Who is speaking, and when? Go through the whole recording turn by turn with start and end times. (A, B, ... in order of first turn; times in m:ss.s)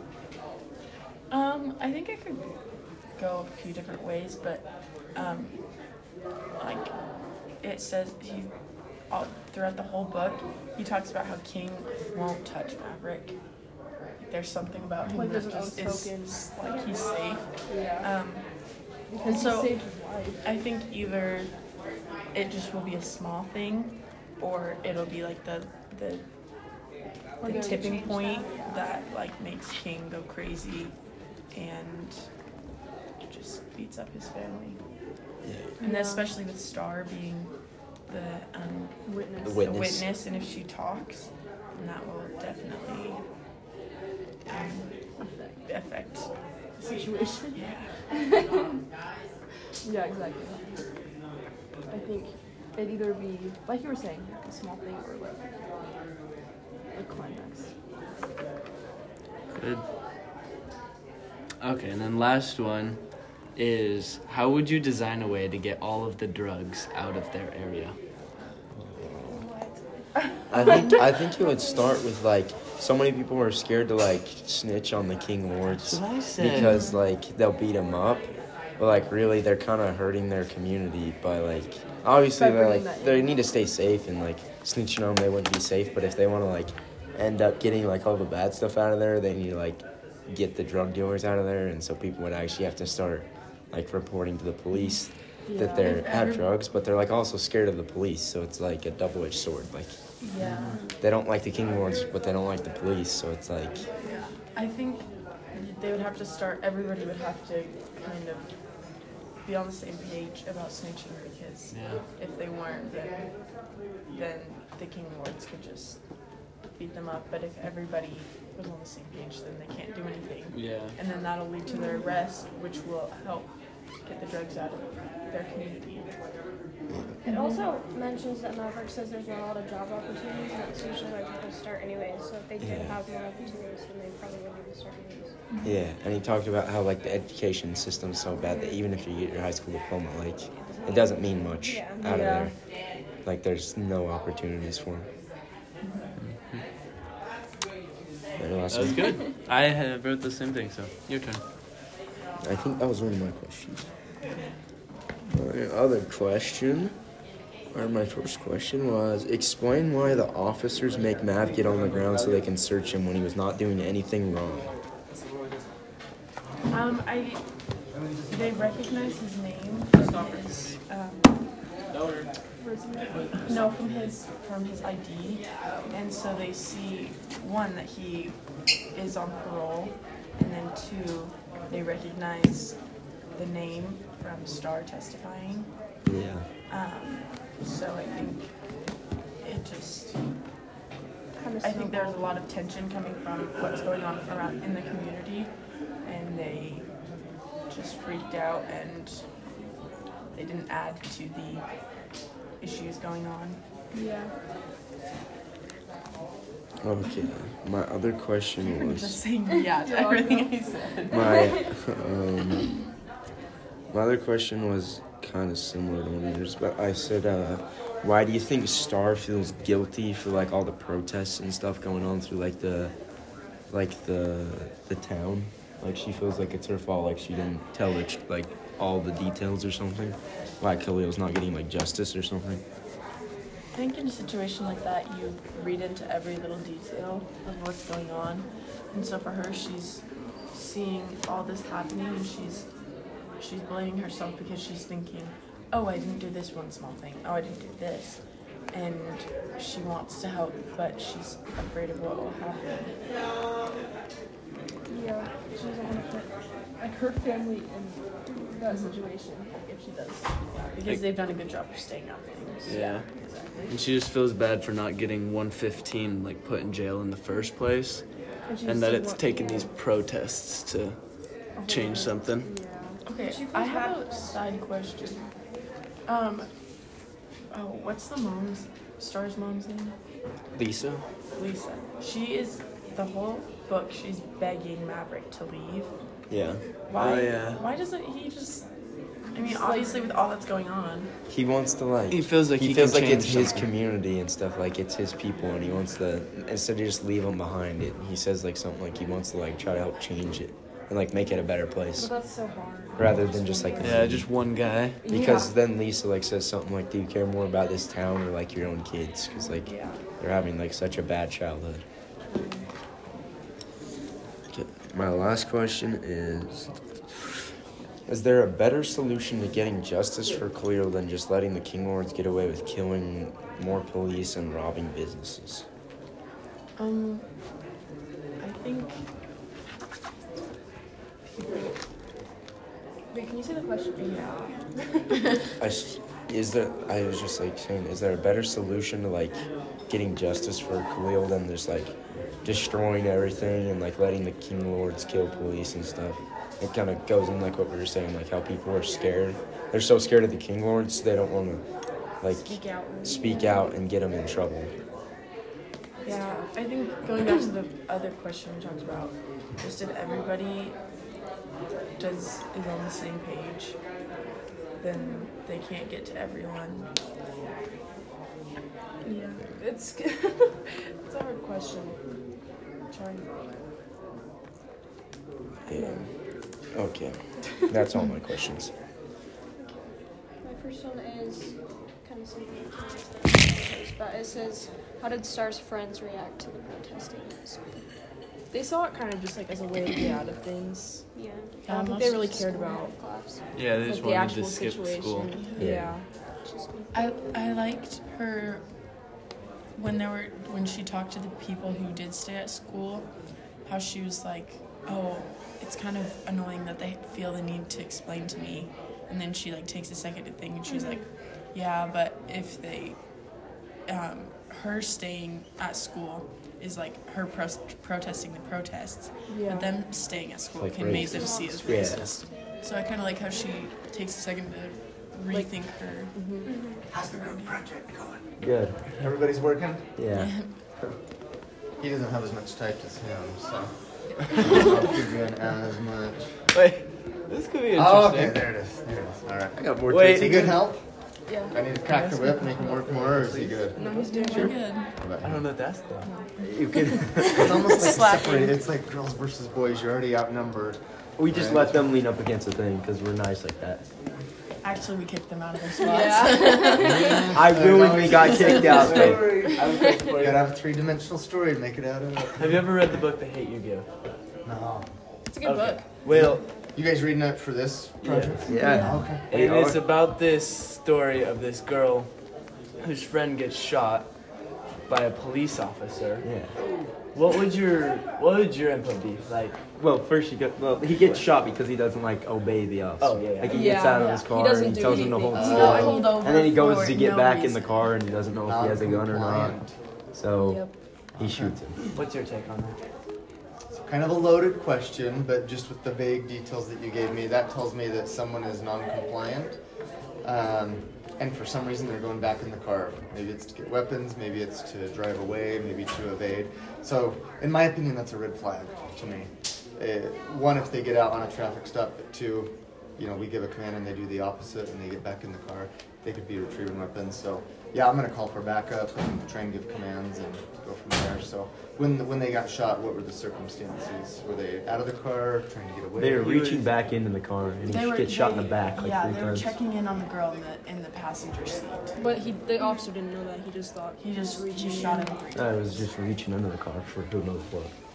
0:01.3-0:02.5 A
0:03.2-0:05.6 A
0:06.6-0:06.9 A
0:07.6-0:08.5 A
0:09.1-0:13.4 A
0:14.2-0:17.4 A
0:15.1-0:16.4 B
0:16.6-0:17.0 C
0:17.7-0:18.1 B
0:18.0-0:18.5 A
0:19.1-0:20.4 B
0:19.2-0:19.8 A
0:20.4-0:21.5 A
0:22.3-0:26.2 A
0:27.4-0:28.2 B
0:27.4-0:30.9 A
0:27.5-0:29.0 C
0:31.5-0:32.2 A
0:33.2-0:34.8 A
0:35.4-0:35.8 D
0:35.8-0:37.5 A
0:35.8-0:36.3 B
0:38.1-0:43.2 A
0:39.1-0:39.7 B
0:39.4-0:40.1 D
0:44.5-0:44.9 A
0:45.2-0:45.6 B
0:45.7-0:46.3 A
0:46.8-0:47.6 B
0:47.5-0:47.9 A
0:48.1-0:48.8 B
0:49.8-0:50.8 B
0:51.9-0:55.5 B
0:56.9-0:57.7 B
0:59.5-0:59.8 E
1:01.6-1:03.0 E
1:03.6-1:08.0 E
1:08.8-1:09.4 D
1:09.2-1:09.9 C
1:10.5-1:40.0 D
1:10.5-1:12.0 C
1:15.7-1:16.8 E
1:22.3-1:23.4 B
1:35.5-1:36.0 B
1:35.6-1:36.5 A
1:40.2-1:40.8 A
1:41.0-1:43.9 D
1:44.0-1:48.5 A
1:49.4-1:53.3 A
1:51.7-1:52.0 E
1:54.1-1:56.0 A
1:56.7-2:03.5 A
2:00.5-2:01.0 E
2:01.7-2:02.1 C
2:04.0-2:06.1 A
2:07.2-2:15.4 C
2:07.3-2:07.6 B
2:12.6-2:13.0 D
2:15.5-2:15.8 A
2:15.6-2:22.5 D
2:18.4-2:18.8 C
2:20.5-2:22.1 C
2:22.0-2:22.5 B
2:23.2-2:25.1 D
2:26.2-2:26.6 E
2:28.4-2:29.2 D
2:28.7-2:31.4 E
2:32.4-2:33.9 D
2:35.3-2:37.0 D
2:37.7-2:44.7 D
2:46.7-2:47.4 A
2:48.3-2:51.4 A
2:52.6-2:53.5 B
2:53.4-2:58.4 A
2:58.9-3:02.8 A
3:03.3-3:05.7 A
3:06.1-3:06.5 D
3:06.7-3:08.5 A
3:09.4-3:10.2 A
3:11.4-3:12.4 B
3:11.6-3:15.5 A
3:16.0-3:16.9 A
3:17.7-3:19.2 A
3:20.3-3:21.6 A
3:22.6-3:23.6 A
3:23.9-3:24.3 B
3:26.8-3:29.2 D
3:28.7-3:31.4 A
3:29.6-3:31.7 B
3:31.1-3:32.7 D
3:33.9-3:42.9 D
3:43.7-3:52.6 D
3:53.7-4:02.7 A
4:03.4-4:08.2 A
4:08.7-4:13.0 A
4:14.9-4:18.0 B
4:18.3-4:18.7 C
4:18.6-4:20.3 B
4:18.7-4:19.0 A
4:20.6-4:22.9 A
4:22.7-4:23.1 E
4:22.7-4:23.8 B
4:23.7-4:28.0 E
4:28.4-4:29.7 B
4:28.6-4:31.0 E
4:31.6-4:33.0 B
4:31.7-4:32.5 E
4:33.1-4:35.3 A
4:33.2-4:34.6 C
4:36.1-4:36.5 A
4:37.5-4:40.0 A
4:40.5-4:41.0 D
4:41.4-4:45.9 A
4:46.3-4:46.6 D
4:46.9-4:48.6 A
4:47.0-4:47.6 E
4:49.3-4:51.1 A
4:49.3-4:50.1 B
4:51.3-5:02.1 D
4:52.1-4:53.7 E
5:02.0-5:04.2 B
5:03.0-5:04.3 D
5:03.8-5:05.0 E
5:05.0-5:05.6 B
5:05.1-5:11.8 D
5:09.7-5:10.0 B
5:12.3-5:12.7 B
5:14.5-5:16.7 D
5:18.1-5:25.6 D
5:26.8-5:27.3 A
5:28.4-5:28.9 A
5:31.3-5:31.7 A
5:33.1-5:35.2 B
5:34.0-5:34.4 A
5:35.6-5:51.6 D
5:52.2-5:54.7 D
5:52.3-5:53.7 C
5:56.0-6:00.8 A
6:02.0-6:03.8 A
6:04.8-6:06.9 A
6:04.9-6:05.3 C
6:09.0-6:12.0 B
6:12.9-6:13.6 B
6:15.7-6:16.0 D
6:15.7-6:16.0 B
6:16.7-6:18.7 D
6:19.6-6:19.9 C
6:20.4-6:27.8 C
6:28.5-6:31.0 B
6:31.1-6:31.7 C
6:31.6-6:32.5 A
6:31.7-6:32.9 B
6:32.2-6:33.4 C
6:33.5-6:35.3 E
6:33.8-6:36.0 B
6:35.3-6:35.7 A
6:35.6-6:36.0 D
6:36.4-6:37.7 C
6:36.9-6:38.6 A
6:39.8-6:43.1 A
6:43.7-6:53.0 A
6:50.7-6:51.0 C
6:53.9-7:06.3 A
6:59.3-6:59.7 B
7:00.6-7:02.1 D
7:00.9-7:02.8 C
7:06.1-7:06.5 B
7:06.4-7:06.9 C
7:06.9-7:08.2 F
7:07.1-7:07.6 A
7:08.4-7:08.8 D
7:08.9-7:09.9 F
7:10.0-7:10.3 D
7:10.1-7:10.5 A
7:11.8-7:16.4 F
7:16.5-7:18.5 E
7:17.7-7:20.8 F
7:19.6-7:20.7 D
7:19.9-7:20.5 E
7:21.3-7:21.6 B
7:21.5-7:24.0 F
7:21.9-7:23.7 E
7:23.8-7:24.6 B
7:23.9-7:24.9 A
7:25.0-7:25.4 F
7:25.2-7:26.1 E
7:26.0-7:27.1 B
7:26.4-7:27.6 D
7:27.2-7:28.6 A
7:27.2-7:31.9 F
7:31.2-7:33.8 D
7:34.6-7:37.3 A
7:35.8-7:37.4 B
7:36.8-7:42.7 F
7:37.0-7:39.4 D
7:38.3-7:38.7 B
7:38.6-7:40.4 E
7:42.3-7:43.9 E
7:44.4-7:44.9 F
7:45.3-7:45.8 B
7:45.4-7:46.4 E
7:46.1-7:49.2 F
7:48.0-7:48.5 E
7:48.4-7:49.8 D
7:48.6-7:48.9 A
7:49.3-7:52.1 E
7:52.8-7:54.1 E
7:54.9-7:56.3 E
7:56.2-7:56.5 D
7:57.1-7:59.6 E
7:59.8-8:09.6 D
8:03.0-8:03.7 E
8:03.5-8:06.4 B
8:04.0-8:04.3 A
8:04.9-8:07.9 A
8:05.3-8:06.2 F
8:08.5-8:09.7 F
8:10.1-8:11.8 D
8:10.4-8:10.7 B
8:11.2-8:11.6 F
8:11.9-8:12.8 E
8:13.7-8:19.6 F
8:20.2-8:46.3 F
8:46.0-8:49.5 D
8:46.2-8:46.7 E
8:47.7-8:52.0 A
8:52.0-8:55.2 B
8:52.6-8:52.9 C
8:54.0-8:55.7 A
8:55.3-8:57.7 D